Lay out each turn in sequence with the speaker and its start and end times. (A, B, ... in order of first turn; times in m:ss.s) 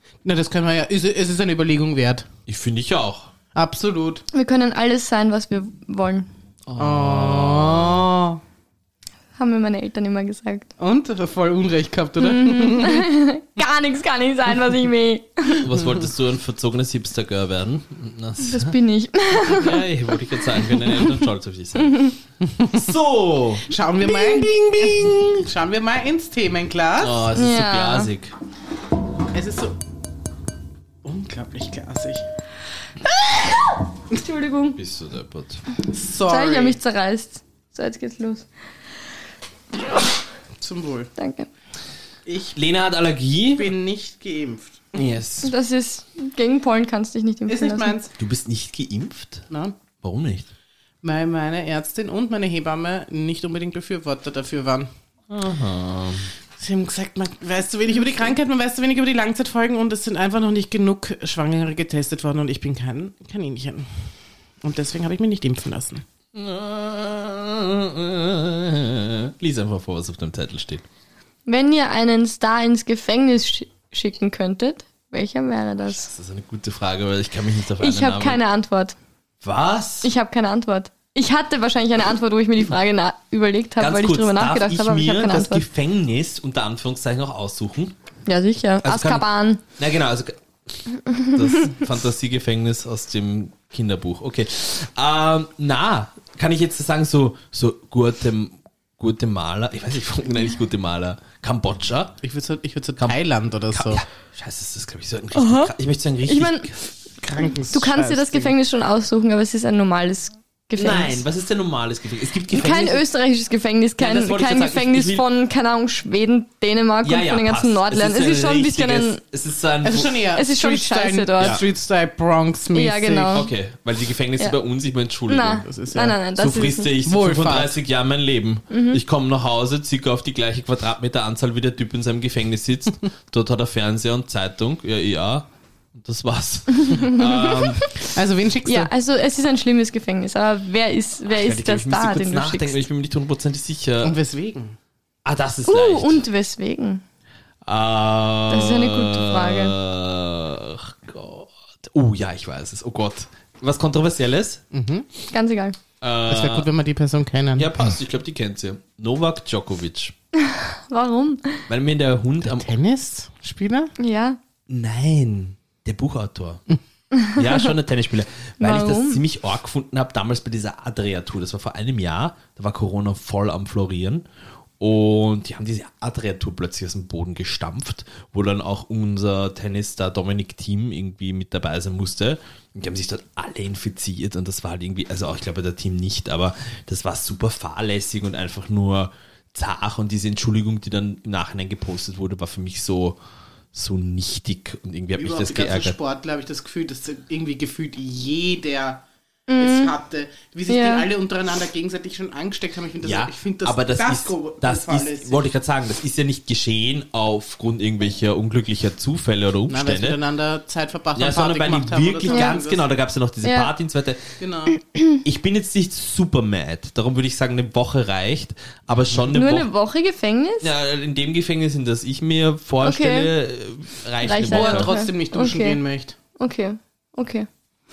0:00.2-0:02.3 A
0:02.5-0:03.3 B
0:03.6-0:04.2 A
0:04.3-0:06.3 C
0:06.7-0:08.1 B
0:06.8-0:08.4 A
0:09.4-0:10.7 C
0:10.8-0:13.1 A
0:12.2-0:15.6 C
0:15.6-0:18.8 B
0:18.4-0:19.8 C
0:19.5-0:22.1 B
0:20.8-0:21.1 C
0:21.8-0:22.1 C
0:22.5-0:22.8 A
0:22.7-0:25.5 B
0:23.7-0:27.2 A
0:27.0-0:28.3 B
0:27.3-0:28.1 C
0:29.3-0:29.8 A
0:31.0-0:32.2 A
0:34.1-0:34.8 C
0:34.8-0:35.6 B
0:35.9-0:36.8 A
0:36.3-0:38.5 C
0:40.6-0:41.1 A
0:41.2-0:41.5 C
0:42.3-0:42.6 A
0:42.5-0:43.7 B
0:43.6-0:44.9 A
0:44.9-0:45.5 B
0:45.4-0:48.0 C
0:47.5-0:48.1 A
0:48.2-0:49.5 B
0:49.5-0:49.8 A
0:50.0-0:50.5 B
0:51.0-0:54.9 A
0:55.3-0:56.3 B
0:56.6-1:03.9 A
1:04.6-1:06.0 A
1:06.3-1:10.8 B
1:11.5-1:16.1 C
1:15.9-1:18.4 B
1:17.8-1:19.0 C
1:19.4-1:20.1 B
1:20.0-1:25.6 C
1:23.8-1:28.0 B
1:28.3-1:29.6 C
1:28.8-1:30.4 B
1:31.1-1:31.7 C
1:31.3-1:42.2 B
1:42.2-1:44.0 A
1:43.7-1:46.8 B
1:45.3-1:45.7 C
1:46.2-1:46.7 C
1:47.2-1:48.5 A
1:47.7-1:51.2 C
1:50.8-1:53.0 B
1:52.5-1:59.2 C
1:54.0-1:55.2 B
1:57.0-2:00.2 B
1:59.8-2:03.4 A
2:00.3-2:01.6 C
2:02.7-2:03.5 C
2:03.2-2:05.6 B
2:05.3-2:06.9 C
2:05.6-2:06.2 A
2:06.4-2:17.9 B
2:07.0-2:07.7 A
2:08.7-2:09.0 C
2:16.8-2:17.9 C
2:18.0-2:18.9 A
2:18.6-2:22.8 C
2:21.3-2:24.2 B
2:24.0-2:24.8 A
2:25.2-2:26.2 B
2:25.7-2:27.0 C
2:27.6-2:34.6 B
2:28.5-2:29.8 C
2:34.7-2:35.1 A
2:35.3-2:35.8 C
2:36.0-2:36.7 B
2:36.3-2:37.7 A
2:37.6-2:40.1 B
2:40.4-2:41.6 C
2:41.7-2:42.7 B
2:42.4-2:43.9 A
2:44.0-2:44.4 C
2:44.7-2:46.6 B
2:47.4-2:54.2 B
2:48.6-2:49.2 C
2:54.8-3:13.2 B
3:13.7-3:16.0 B
3:15.2-3:19.0 A
3:19.5-3:19.9 C
3:19.6-3:25.4 A
3:20.7-3:21.1 C
3:23.0-3:30.2 B
3:29.7-3:32.9 A
3:31.2-3:34.4 B
3:32.3-3:32.6 C
3:33.4-3:33.7 C
3:34.4-3:34.8 A
3:34.7-3:35.2 C
3:35.2-3:39.7 B
3:39.3-3:40.7 C
3:40.6-3:44.9 B
3:42.8-3:43.3 C
3:44.2-3:45.8 C
3:44.4-3:46.2 A
3:46.4-3:47.5 C